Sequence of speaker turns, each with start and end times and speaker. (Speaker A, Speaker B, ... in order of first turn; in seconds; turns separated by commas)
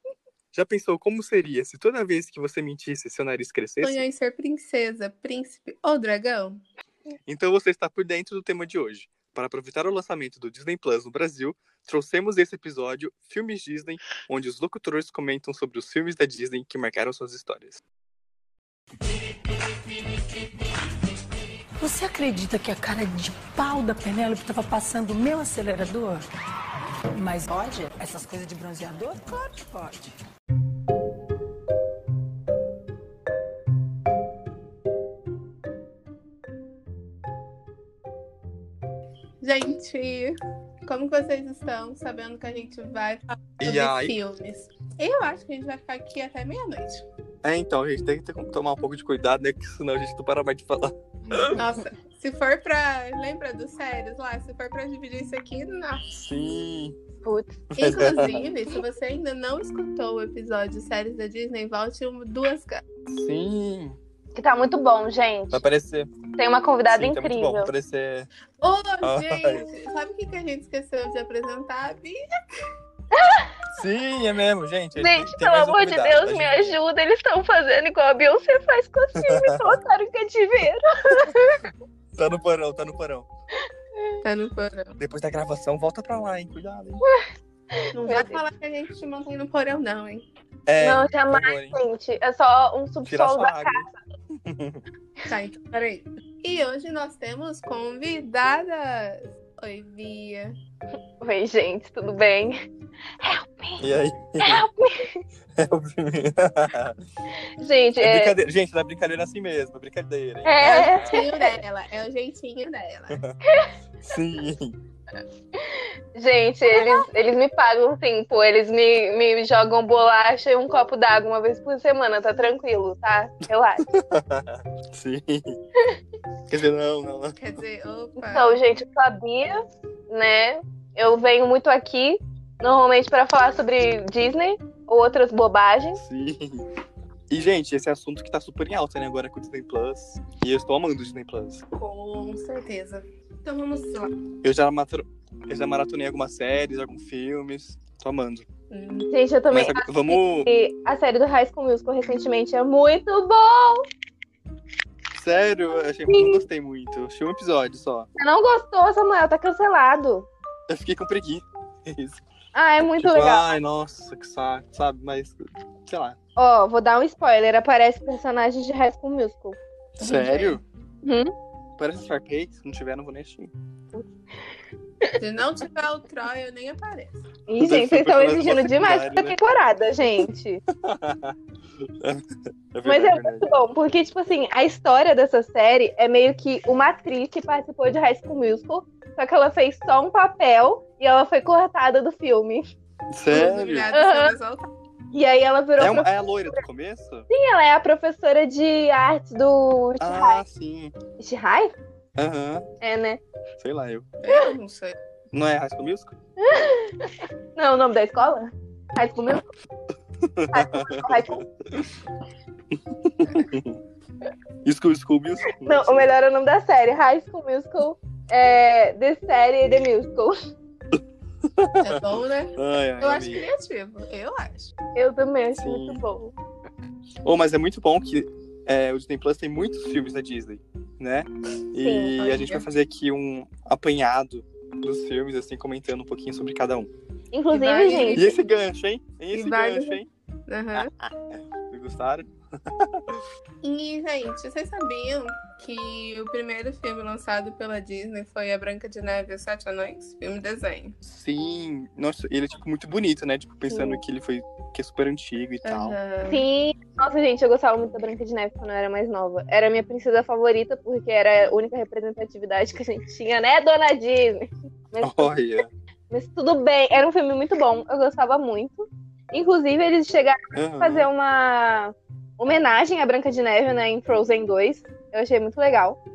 Speaker A: 0.5-4.0, Speaker B: 3.8-6.6, Speaker A: 7.3-17.8, Speaker C: 21.8-26.2, Speaker C: 27.1-30.1, Speaker B: 39.4-47.0, Speaker A: 43.6-44.2, Speaker A: 47.4-51.6, Speaker B: 51.5-56.1, Speaker A: 56.1-57.0, Speaker D: 57.2-57.6, Speaker A: 57.7-58.4, Speaker B: 57.8-62.8, Speaker A: 63.1-64.0, Speaker D: 64.3-65.6, Speaker A: 65.5-66.1, Speaker D: 66.4-67.7, Speaker A: 66.9-68.3, Speaker B: 68.6-72.2, Speaker A: 69.0-69.7, Speaker D: 73.1-73.5, Speaker A: 73.7-76.8, Speaker D: 75.0-81.7, Speaker A: 79.2-79.6, Speaker A: 82.1-83.3, Speaker B: 84.2-85.0, Speaker A: 85.0-87.0, Speaker D: 87.0-88.4, Speaker B: 87.9-90.2, Speaker A: 90.7-91.8, Speaker D: 90.8-94.0, Speaker A: 93.0-93.9, Speaker A: 94.4-94.8, Speaker B: 95.3-100.6, Speaker D: 101.2-102.6, Speaker D: 103.2-103.8, Speaker A: 103.8-104.6, Speaker D: 104.4-105.2, Speaker A: 105.5-107.0, Speaker D: 107.6-108.3, Speaker A: 108.0-111.1, Speaker D: 110.4-111.6, Speaker B: 110.6-113.2, Speaker A: 113.1-113.3, Speaker D: 113.5-113.7, Speaker A: 114.0-114.8, Speaker D: 115.5-123.9, Speaker B: 116.8-117.0, Speaker A: 123.9-125.6, Speaker A: 126.5-127.4, Speaker B: 127.4-128.6, Speaker D: 128.2-129.6, Speaker D: 130.1-136.0, Speaker A: 136.0-136.7, Speaker A: 137.3-141.6, Speaker B: 141.8-144.1, Speaker A: 144.4-148.4, Speaker B: 148.7-149.1, Speaker D: 149.1-153.9, Speaker A: 149.5-150.5, Speaker A: 155.2-158.1, Speaker D: 156.1-156.4, Speaker D: 158.2-160.3, Speaker A: 160.7-162.2, Speaker D: 162.5-163.5, Speaker A: 163.0-166.2, Speaker D: 166.4-169.6, Speaker B: 170.0-170.6, Speaker A: 170.0-170.6, Speaker D: 171.0-171.3, Speaker A: 171.8-173.5, Speaker B: 175.2-177.2, Speaker D: 177.5-180.6, Speaker A: 177.6-179.4, Speaker A: 180.7-183.5, Speaker D: 182.8-192.7, Speaker A: 193.1-193.9, Speaker B: 193.3-194.7, Speaker D: 193.9-194.3, Speaker D: 195.1-196.6, Speaker A: 195.8-197.3, Speaker D: 197.3-200.4, Speaker A: 200.0-200.9, Speaker D: 201.2-201.7, Speaker A: 202.2-202.7, Speaker D: 202.8-203.2, Speaker A: 203.6-204.1, Speaker B: 204.2-205.0, Speaker A: 205.3-206.1, Speaker D: 206.4-209.5, Speaker A: 210.2-211.8, Speaker D: 210.5-211.5, Speaker A: 212.9-213.8, Speaker A: 214.6-216.1, Speaker D: 215.6-220.4, Speaker A: 220.9-223.4, Speaker B: 221.8-224.8, Speaker D: 224.9-226.3, Speaker A: 225.6-226.0, Speaker A: 227.2-236.9, Speaker D: 231.8-232.2, Speaker B: 232.2-232.7, Speaker D: 237.3-238.3, Speaker B: 237.5-238.4, Speaker A: 238.1-240.1, Speaker B: 239.3-240.9, Speaker A: 240.8-243.2, Speaker B: 243.6-251.0, Speaker A: 251.0-256.0, Speaker D: 253.7-254.0, Speaker B: 255.7-256.4, Speaker D: 256.3-265.3, Speaker A: 265.0-265.7, Speaker D: 266.1-276.0, Speaker A: 270.5-271.1